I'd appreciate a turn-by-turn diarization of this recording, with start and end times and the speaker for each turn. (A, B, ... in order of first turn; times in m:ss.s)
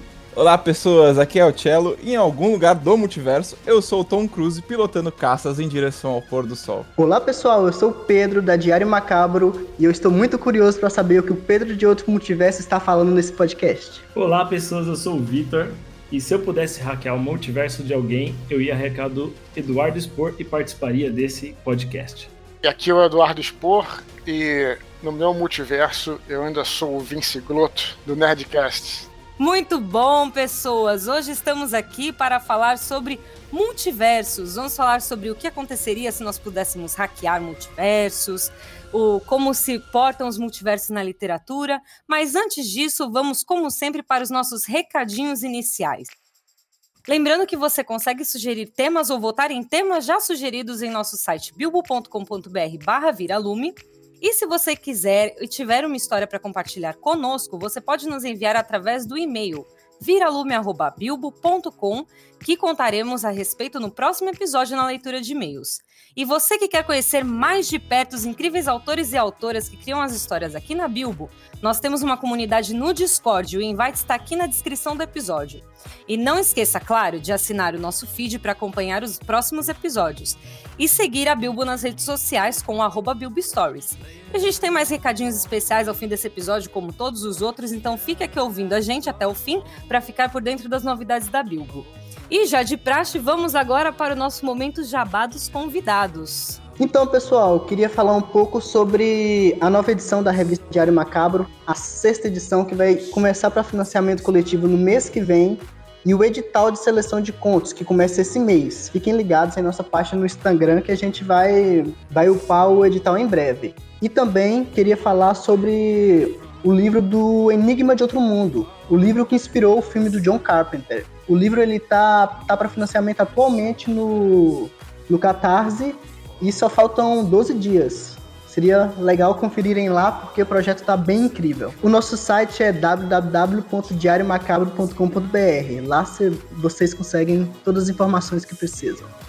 0:00.3-0:06.9 A
0:07.0-0:14.0 B
0:14.1-0:22.3 C
0:22.6-0:29.1 D
0:29.4-0:46.1 E
0:47.1-1:36.6 E
1:36.8-2:19.1 B